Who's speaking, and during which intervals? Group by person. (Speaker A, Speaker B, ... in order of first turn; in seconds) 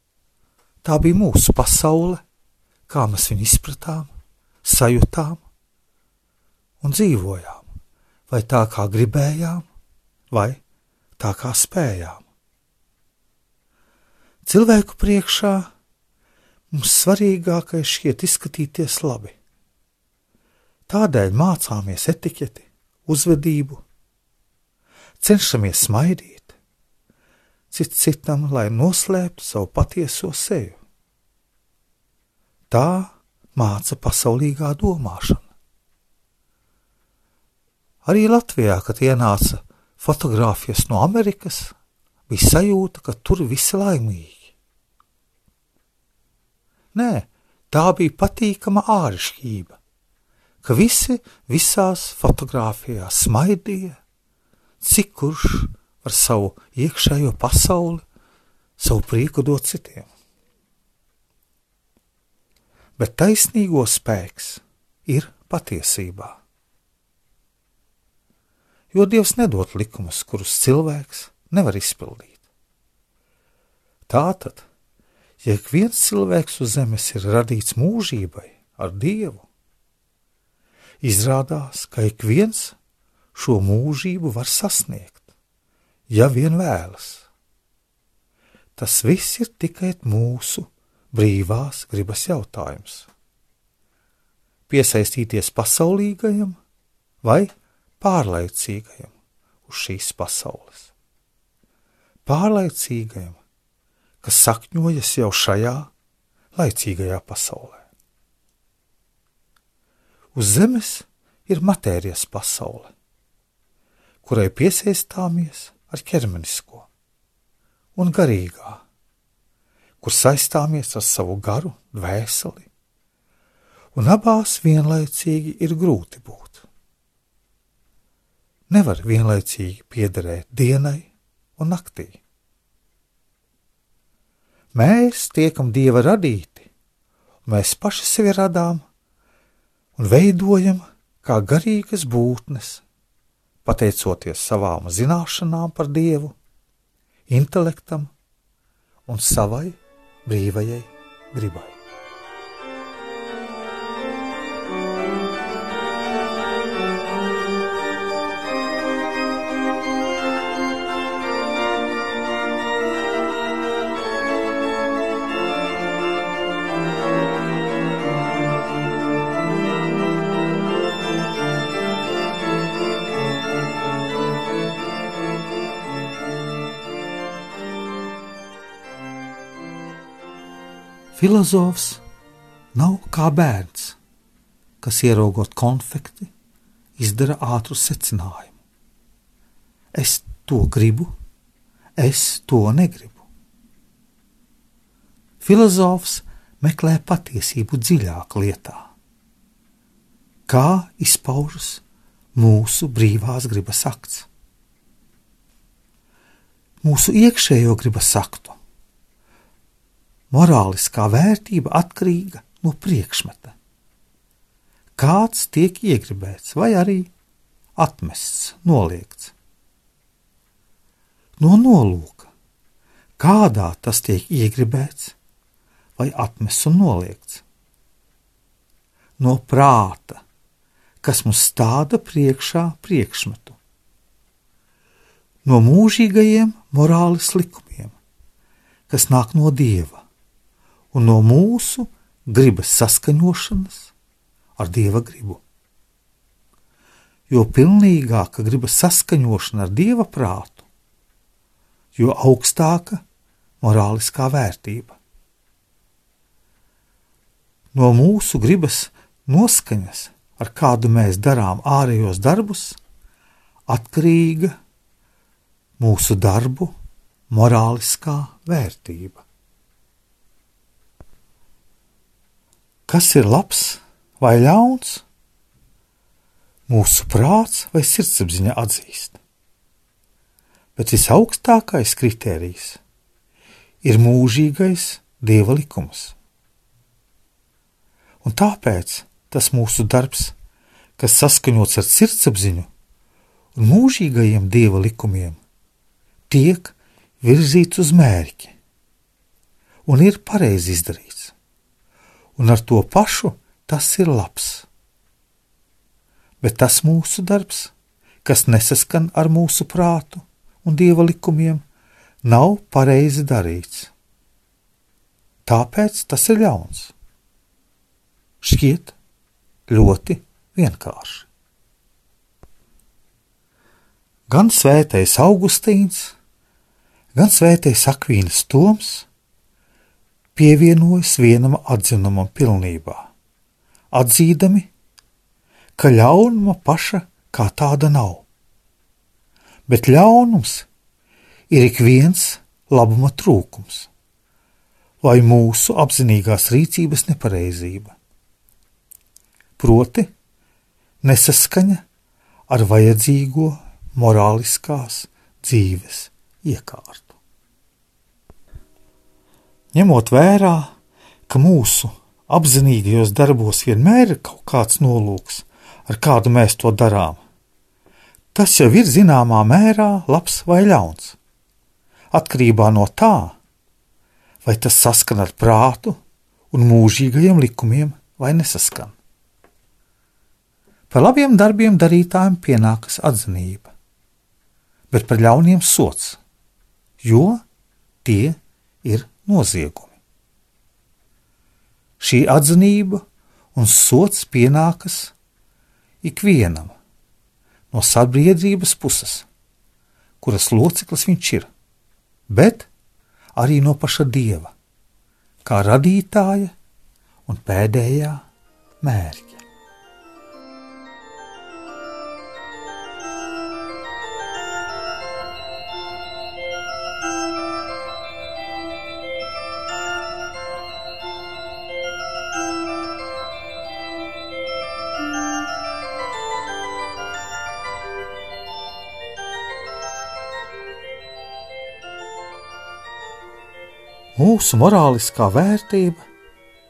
Speaker A: 0.8-2.2, 2.9-4.1, 4.6-5.4, 6.8-7.7, 8.3-9.7, 10.3-10.6, 11.2-12.2, 14.4-15.7, 16.7-19.4, 20.9-23.8, 25.2-26.5, 27.7-30.8, 32.7-35.5, 38.0-41.7, 42.3-44.5, 46.9-49.8, 50.6-54.0, 54.8-58.0, 58.8-60.1, 63.0-66.4, 68.9-72.4, 74.0-74.7, 75.4-79.5, 81.0-82.8, 83.3-85.2, 86.1-87.3, 88.8-93.1, 94.7-96.6, 97.2-99.1, 99.6-100.9, 102.2-103.4, 104.2-105.9, 106.5-107.8, 110.3-112.9, 114.2-116.9, 118.0-118.8, 120.0-122.7, 123.9-126.7, 128.7-132.2, 134.7-136.7, 137.4-138.8, 139.9-142.8, 143.6-146.3, 147.3-148.1, 149.1-151.8, 181.1-182.0, 182.7-184.0, 184.8-186.3, 187.0-188.6, 189.9-191.1, 192.0-193.2, 195.4-198.9, 200.5-201.8, 202.3-204.3, 206.8-208.6, 210.3-213.5, 214.9-217.1, 217.8-219.3, 221.4-222.3, 223.2-225.2, 225.9-227.4, 229.2-230.2, 231.0-233.6, 235.4-237.9, 238.9-240.0, 240.9-243.9, 244.6-245.4, 247.3-250.7, 251.9-253.0, 253.6-255.0, 257.7-262.8, 263.7-264.5, 265.8-266.7, 267.3-269.2, 272.9-275.0, 276.7-279.2, 280.8-282.8, 283.8-286.1, 288.2-290.3, 291.0-292.7, 293.6-295.4, 296.3-298.5, 299.9-301.3, 302.4-304.7, 306.4-307.7, 308.2-311.6, 312.2-313.9, 315.4-316.9, 318.4-318.9, 319.7-321.3, 324.3-326.1, 327.1-329.1, 330.4-333.1, 333.9-334.7, 335.8-338.2, 339.7-340.7, 341.5-343.9, 345.0-347.9, 349.6-350.1, 351.0-351.8, 352.5-357.2, 359.7-360.7, 361.3-367.2, 368.3-371.2, 372.1-373.4, 374.4-376.0, 376.5-378.9, 380.9-383.7, 384.9-386.2, 387.0-387.4, 388.0-389.9, 392.0-393.0, 393.5-395.1, 396.0-396.7, 397.7-399.3, 400.2-401.5, 402.3-402.7, 403.4-404.5, 405.4-406.5, 407.2-408.2, 408.8-409.4, 434.1-436.0